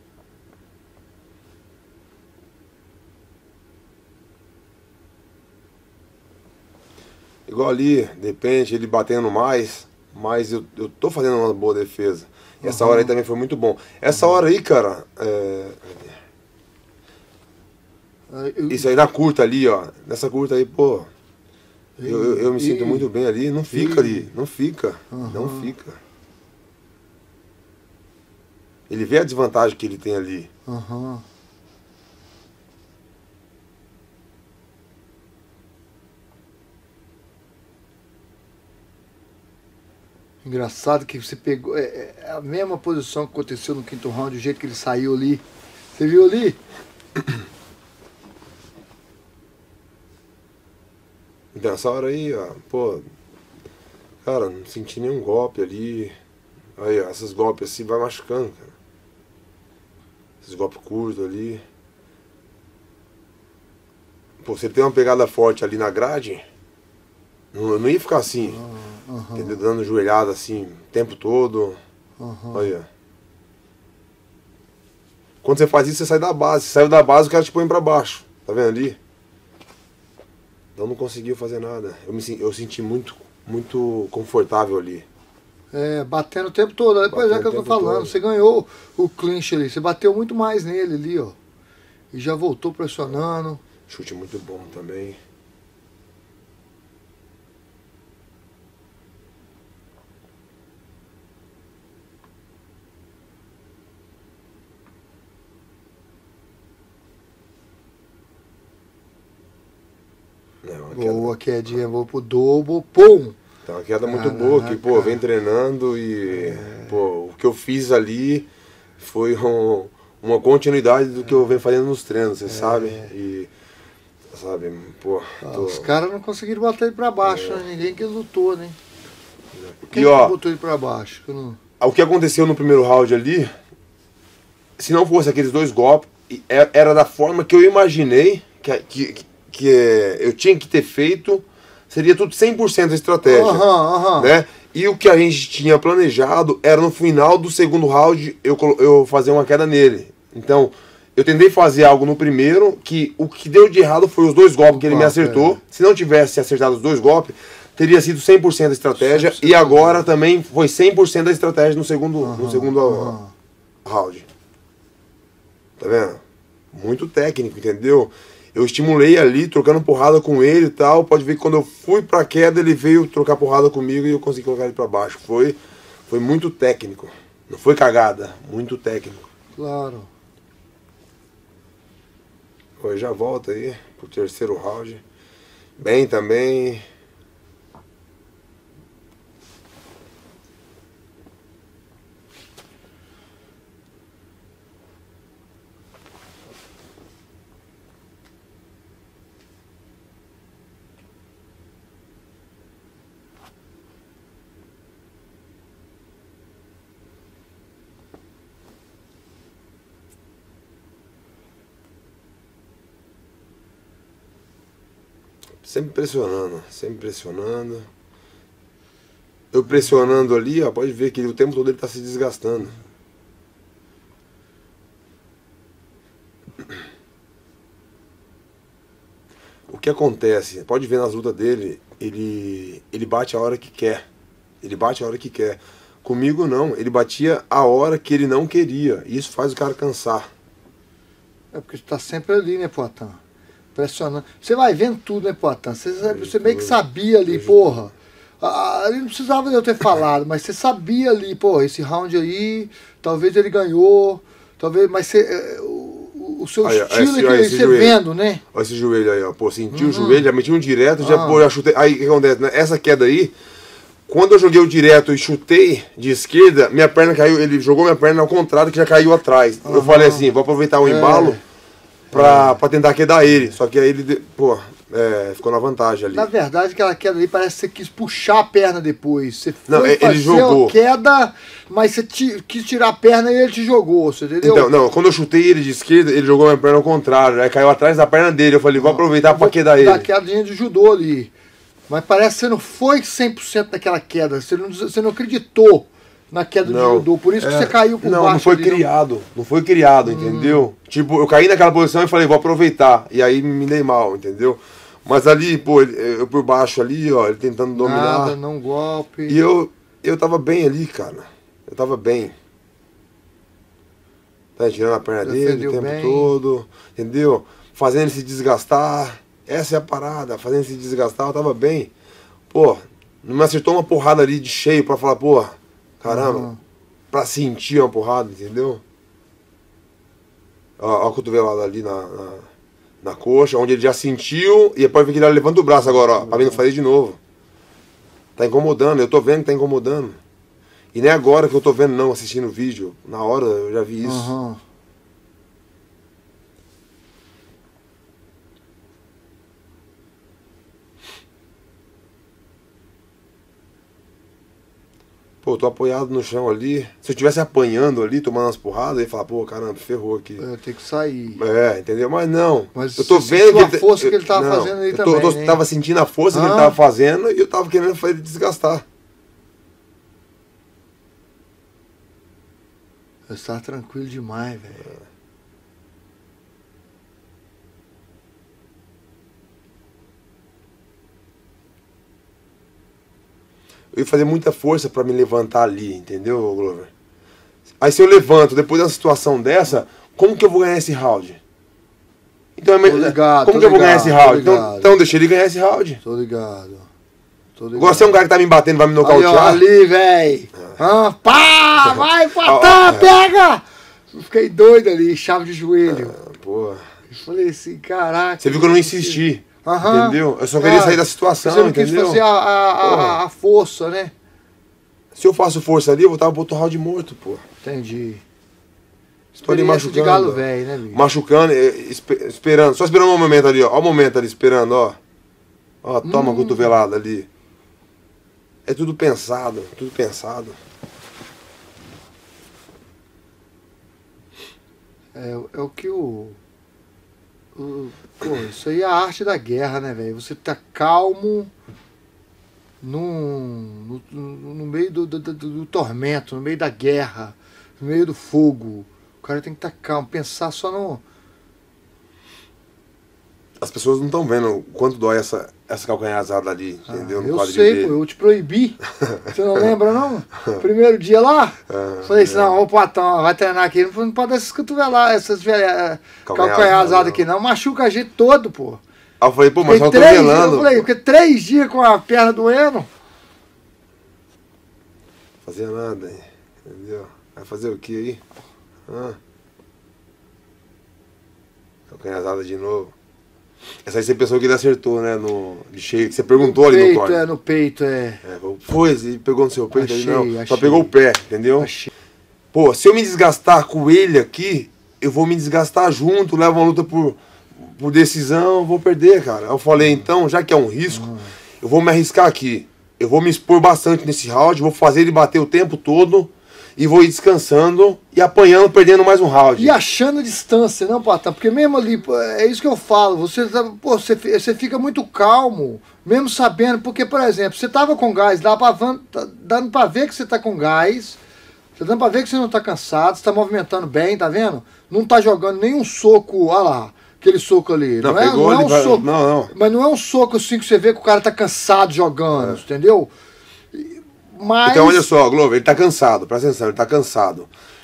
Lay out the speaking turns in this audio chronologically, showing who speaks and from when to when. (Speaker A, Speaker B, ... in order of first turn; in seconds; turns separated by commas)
Speaker A: 7.5-16.1, Speaker B: 12.6-13.1, Speaker B: 18.3-18.9, Speaker A: 18.7-21.1, Speaker B: 22.0-23.1, Speaker A: 22.0-26.0, Speaker B: 23.7-24.3, Speaker B: 25.1-25.7, Speaker A: 28.9-30.5, Speaker B: 30.6-31.2, Speaker B: 40.4-46.6, Speaker A: 51.5-53.0, Speaker A: 54.2-56.1, Speaker A: 56.8-58.7, Speaker A: 60.4-61.6, Speaker A: 64.4-66.4, Speaker A: 67.5-68.6, Speaker B: 68.5-69.6, Speaker A: 69.3-71.8, Speaker B: 72.2-72.7, Speaker A: 72.5-72.9, Speaker A: 75.4-79.0, Speaker A: 80.8-85.0, Speaker B: 85.7-91.3, Speaker A: 87.1-88.1, Speaker B: 92.1-93.6, Speaker A: 93.9-95.2, Speaker A: 110.6-111.3, Speaker B: 110.9-113.4, Speaker A: 113.7-118.5, Speaker B: 114.0-115.2, Speaker B: 116.3-116.9, Speaker A: 119.0-123.5, Speaker B: 122.5-123.1, Speaker A: 124.3-125.9, Speaker B: 125.4-128.8, Speaker A: 127.2-127.6, Speaker A: 129.5-130.3, Speaker B: 129.9-131.6, Speaker A: 131.8-133.5, Speaker A: 134.8-163.2, Speaker B: 143.2-144.3, Speaker B: 154.7-155.6, Speaker B: 159.0-160.1, Speaker B: 162.2-163.3, Speaker A: 163.8-164.2, Speaker A: 165.8-166.2, Speaker A: 166.7-179.2, Speaker B: 179.6-180.1, Speaker A: 182.8-185.0, Speaker A: 185.8-186.8, Speaker A: 215.6-217.9, Speaker A: 219.5-222.8, Speaker A: 229.7-234.0, Speaker A: 234.6-240.3, Speaker B: 241.5-243.2, Speaker B: 243.7-258.4, Speaker A: 246.0-247.9, Speaker A: 256.6-258.0, Speaker A: 258.5-263.3, Speaker B: 259.7-260.2, Speaker B: 261.0-261.4, Speaker A: 264.1-271.4, Speaker B: 269.6-270.2, Speaker B: 270.8-271.4, Speaker B: 272.1-272.6, Speaker A: 272.1-276.3, Speaker B: 276.1-284.7, Speaker A: 279.7-280.7, Speaker A: 284.4-290.1, Speaker B: 288.8-291.3, Speaker B: 291.9-298.8, Speaker A: 296.6-308.4, Speaker B: 300.0-300.6, Speaker B: 307.7-309.4, Speaker A: 309.3-312.3, Speaker A: 314.6-321.9, Speaker B: 315.2-316.3, Speaker A: 322.5-326.5, Speaker B: 326.1-326.6, Speaker A: 327.1-328.8, Speaker A: 330.8-332.5, Speaker A: 333.0-337.2, Speaker B: 335.8-336.6, Speaker A: 338.4-340.2, Speaker A: 340.9-344.3, Speaker B: 344.0-344.6, Speaker A: 355.4-360.4, Speaker B: 360.4-361.4, Speaker A: 361.3-368.8, Speaker B: 362.7-365.6, Speaker B: 366.3-366.8, Speaker B: 373.3-374.9, Speaker A: 383.9-386.9, Speaker A: 387.8-391.4, Speaker A: 392.6-396.0, Speaker B: 392.8-394.9, Speaker B: 396.0-396.9, Speaker B: 397.6-398.2, Speaker A: 397.8-399.6, Speaker B: 399.0-406.1, Speaker A: 401.9-403.2, Speaker A: 405.9-406.8, Speaker B: 407.1-414.1, Speaker A: 408.4-412.2, Speaker A: 412.8-413.2, Speaker A: 415.1-417.4, Speaker B: 417.6-418.2, Speaker B: 419.3-421.0, Speaker A: 419.4-425.0, Speaker A: 425.8-427.3, Speaker B: 426.0-426.7, Speaker A: 428.6-430.6, Speaker B: 435.1-436.4, Speaker B: 437.5-441.5, Speaker B: 442.8-451.0, Speaker A: 453.6-458.0, Speaker B: 456.9-468.8, Speaker A: 459.0-459.3, Speaker A: 461.7-462.6, Speaker A: 466.2-467.2, Speaker A: 469.2-470.9, Speaker B: 469.6-472.9, Speaker A: 475.4-478.2, Speaker A: 478.9-479.2, Speaker A: 481.9-482.9, Speaker A: 483.8-487.2, Speaker B: 486.3-488.2, Speaker A: 488.2-491.7, Speaker B: 489.7-490.9, Speaker B: 491.6-491.9, Speaker A: 492.5-509.7, Speaker B: 499.8-500.0, Speaker B: 500.9-501.3, Speaker B: 509.6-521.2, Speaker B: 521.8-533.1, Speaker A: 528.0-529.5, Speaker B: 533.7-535.1, Speaker A: 534.6-537.5